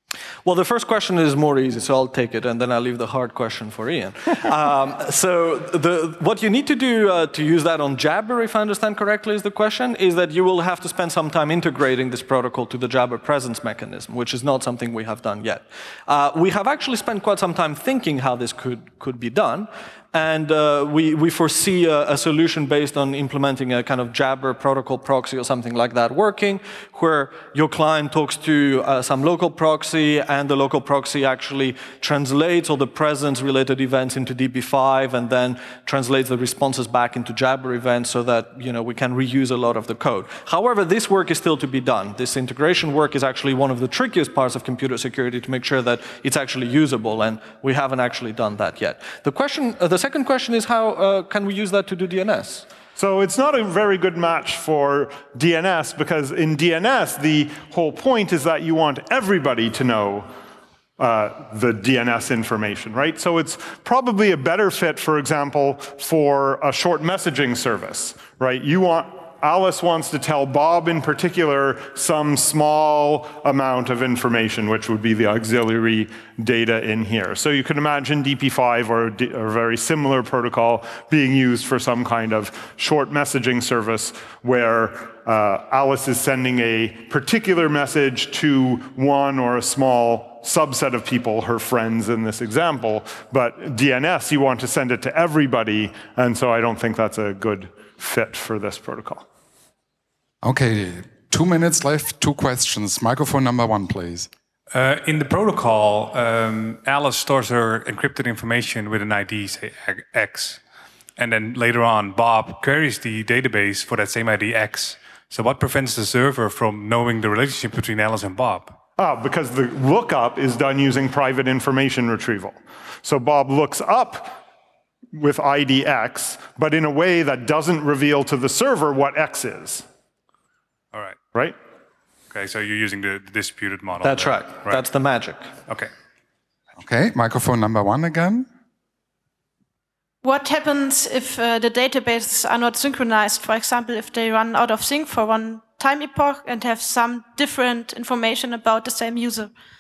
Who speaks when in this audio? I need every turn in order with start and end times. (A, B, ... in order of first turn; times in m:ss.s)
0:00.4-0:52.7 A
0:53.0-1:00.3 B
1:01.0-1:39.3 B
1:40.4-1:44.3 C
1:44.7-1:50.6 D
1:51.2-1:58.8 D
1:59.0-2:04.4 B
2:05.1-2:09.9 B
2:10.9-2:11.2 D
2:12.3-2:14.8 D
2:14.0-2:15.5 A
2:16.8-2:18.5 C
2:20.2-2:29.5 E